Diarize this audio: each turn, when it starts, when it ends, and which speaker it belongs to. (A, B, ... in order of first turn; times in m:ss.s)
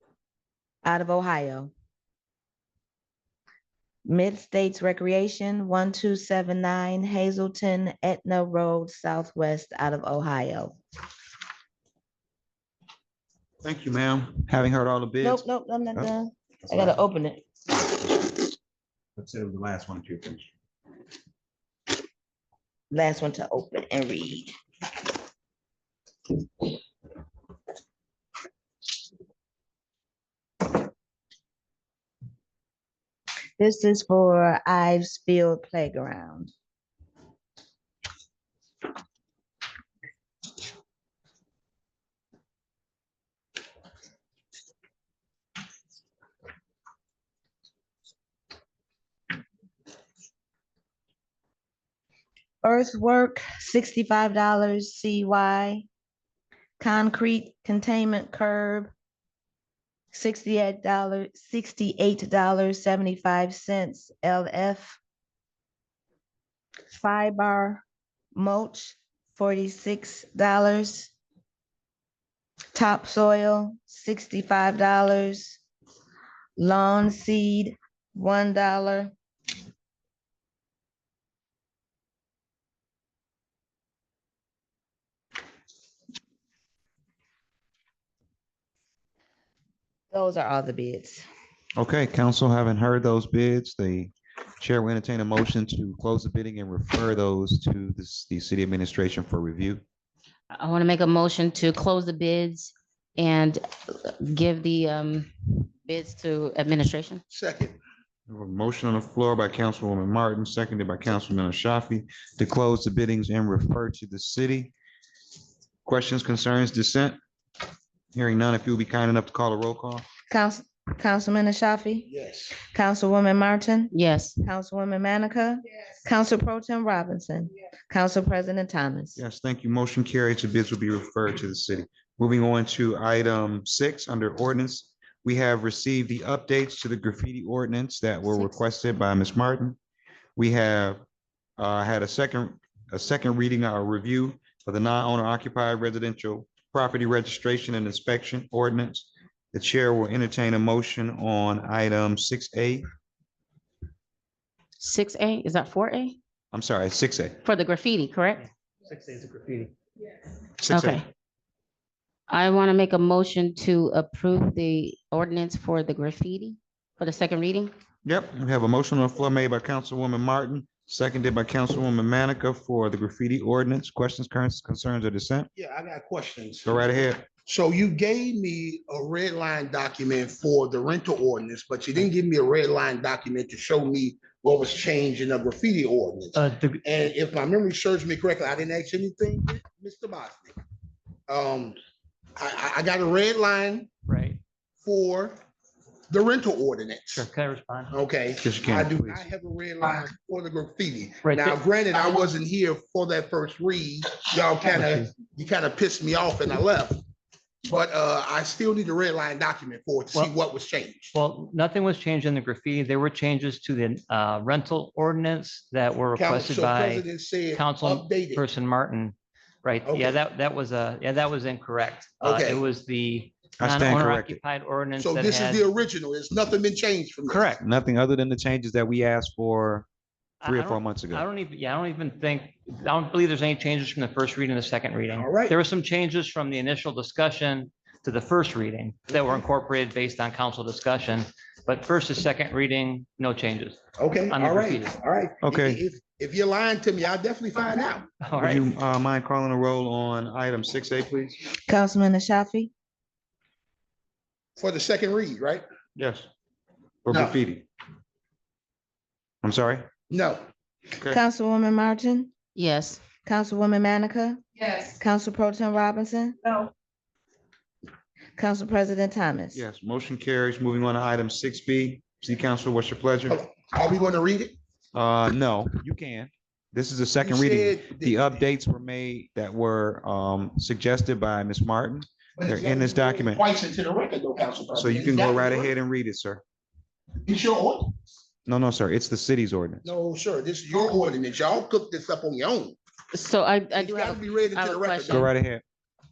0:00.8-0:01.7 A
0:04.0-0:10.8 A
0:13.6-0:16.1 B
0:15.2-0:17.4 A
0:16.7-0:17.0 B
0:17.7-0:18.4 B
0:19.2-0:20.4 B
0:22.9-0:24.5 A
0:33.6-0:36.5 A
0:52.6-0:55.8 A
0:56.8-0:58.9 A
1:00.1-1:05.0 A
1:06.9-1:07.8 A
1:08.3-1:11.1 A
1:12.7-1:15.6 A
1:16.6-1:19.1 A
1:30.1-1:31.2 A
1:31.8-1:39.8 B
1:40.5-1:47.2 C
1:47.3-1:47.8 D
1:48.3-1:54.7 B
1:55.8-1:57.2 B
1:58.1-2:00.0 B
2:00.3-2:09.2 A
2:02.1-2:02.5 D
2:03.9-2:04.4 C
2:09.2-2:19.8 B
2:18.3-2:18.5 C
2:20.4-2:21.0 B
2:21.6-2:32.9 B
2:34.8-2:36.2 C
2:36.5-2:37.4 B
2:37.4-2:38.5 C
2:38.4-2:39.7 E
2:40.6-2:41.0 B
2:40.7-2:41.1 C
2:42.3-2:47.7 C
2:48.0-2:55.5 B
2:55.6-2:56.8 D
2:56.6-2:57.2 B
2:57.3-3:10.6 D
3:06.3-3:06.8 E
3:11.3-3:11.8 D
3:12.4-3:13.9 D
3:14.0-3:14.4 E
3:14.8-3:15.4 D
3:16.1-3:17.3 D
3:17.1-3:17.9 E
3:17.9-3:27.0 D
3:18.4-3:19.2 B
3:21.2-3:21.6 E
3:24.7-3:25.0 E
3:27.6-3:31.1 D
3:31.1-3:45.7 E
3:36.1-3:38.4 D
3:39.8-3:40.2 D
3:42.2-3:42.6 D
3:43.6-3:44.4 B
3:45.0-3:47.6 D
3:47.3-3:47.6 E
3:47.6-3:49.8 B
3:50.4-4:05.0 E
3:50.4-3:51.2 B
3:55.1-3:55.6 D
4:04.0-4:08.1 D
4:05.4-4:05.8 B
4:08.2-4:08.7 E
4:08.4-4:11.4 B
4:11.7-4:12.7 A
4:14.6-4:15.6 D
4:16.0-4:16.3 B
4:17.0-4:17.6 B
4:17.1-4:17.4 D
4:19.4-4:19.9 B
4:20.1-4:20.4 D
4:21.1-4:22.3 A
4:22.5-4:23.0 C
4:23.2-4:26.4 A
4:28.4-4:29.6 A
4:29.5-4:33.4 B
4:33.3-4:34.6 D
4:34.9-4:43.4 B
4:37.2-4:38.4 D
4:42.4-4:45.7 D
4:44.7-4:46.4 B
4:47.2-4:47.9 D
4:48.4-4:49.8 B
4:49.8-4:52.8 D
4:53.1-4:55.3 C
4:53.7-4:55.3 D
4:55.1-4:55.6 B